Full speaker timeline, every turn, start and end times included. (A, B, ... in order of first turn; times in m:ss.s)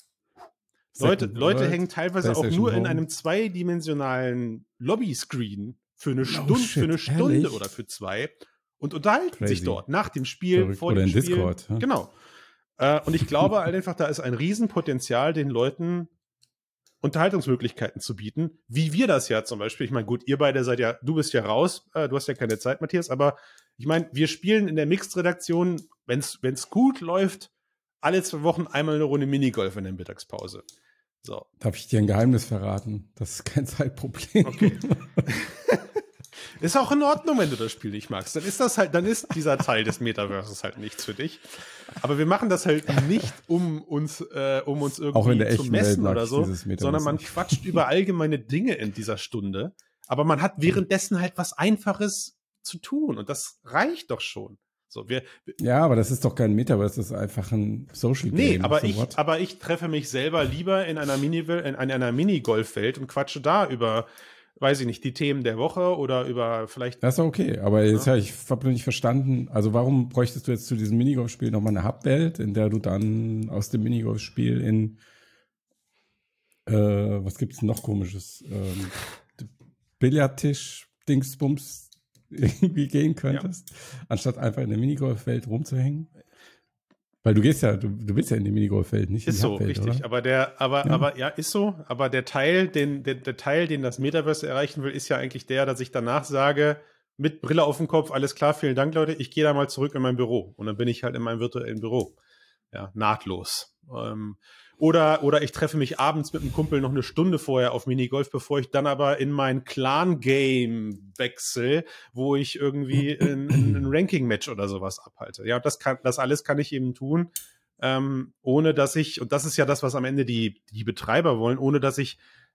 0:00.9-0:03.0 A
0:01.0-0:12.1 B
0:06.3-0:07.6 A
0:09.4-0:09.8 A
0:10.5-0:11.8 A
0:12.8-0:16.1 B
0:17.0-0:27.5 B
0:28.0-0:30.6 B
0:31.6-0:35.3 A
0:34.4-0:35.9 B
0:36.6-0:55.6 B
0:45.1-0:47.6 A
0:55.6-0:59.2 A
0:58.3-1:04.1 B
1:04.6-1:07.0 B
1:07.0-1:15.0 A
1:16.6-1:26.1 A
1:27.2-1:30.0 A
1:29.2-1:42.2 B
1:42.7-2:02.2 B